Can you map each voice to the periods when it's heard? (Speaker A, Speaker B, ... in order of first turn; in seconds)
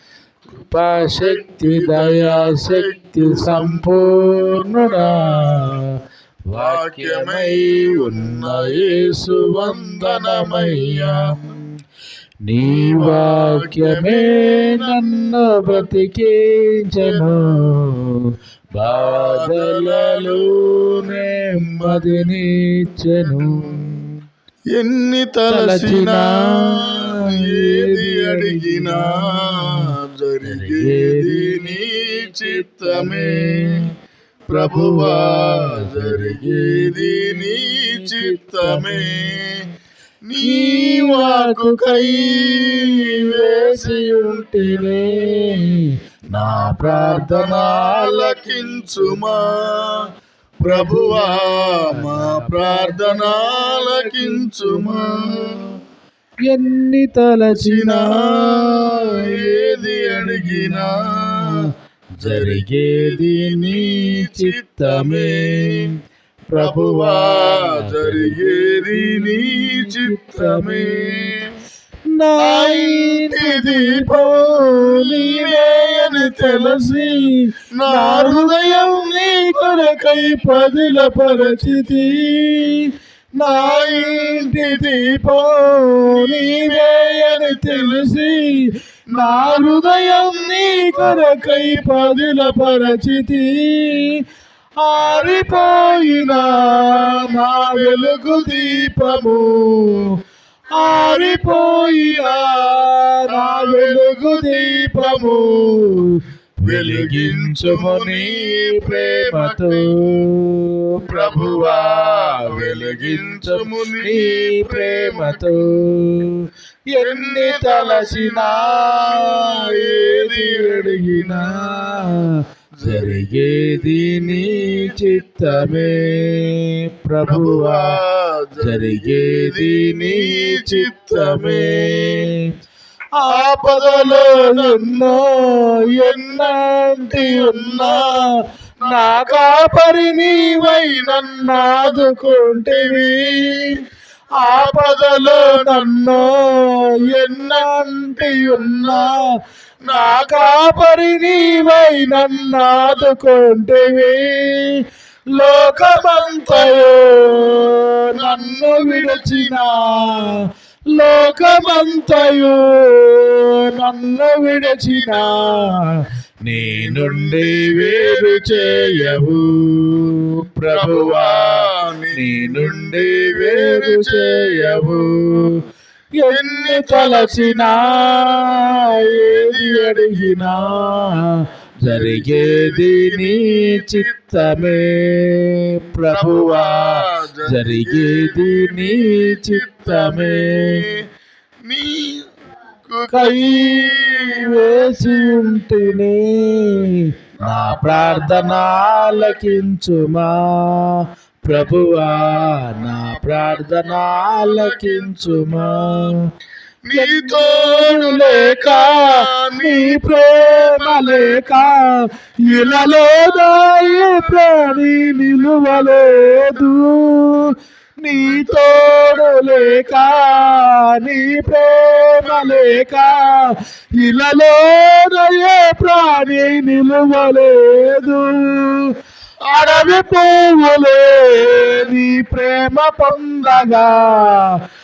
Speaker A: 0.6-6.0, 6.5-11.6, 12.4-24.2, 25.5-29.8, 30.4-31.8, 32.3-33.8, 34.5-39.3, 40.4-49.2, 50.6-55.7, 56.5-61.6, 62.2-65.9, 66.5-71.3, 72.1-94.2, 94.8-100.2, 100.7-127.9, 128.6-132.4, 133.2-143.8, 144.4-149.2, 149.9-171.5, 172.1-175.6, 176.1-190.8, 193.1-206.2, 206.9-228.8, 229.5-234.6
Speaker B: 1.0-3.9, 4.5-5.8, 6.5-11.2, 12.6-15.9, 17.0-17.3, 18.8-22.2, 23.3-23.8, 24.7-33.9, 34.5-39.6, 40.2-45.6, 46.3-50.1, 50.6-55.7, 57.5-61.6, 62.2-65.9, 66.5-71.5, 72.4-77.1, 77.8-82.3, 83.4-85.3, 86.0-88.4, 89.1-93.2, 95.0-99.8, 100.8-102.7, 103.3-105.8, 106.6-110.2, 111.1-115.6, 117.0-121.8, 122.8-126.2, 127.3-132.3, 133.3-138.3, 138.8-143.8, 144.4-146.3, 147.1-149.1, 149.8-150.7, 151.4-153.1, 155.3-160.4, 161.1-162.4, 164.6-165.7, 166.5-169.2, 170.7-175.5, 176.3-180.8, 181.8-184.8, 186.1-191.0, 191.7-192.2, 192.8-195.6, 197.4-199.4, 202.1-205.8, 206.8-211.6, 212.5-213.4, 218.2-220.3, 222.2-222.6, 229.5-230.1, 231.4-231.8, 233.6-233.9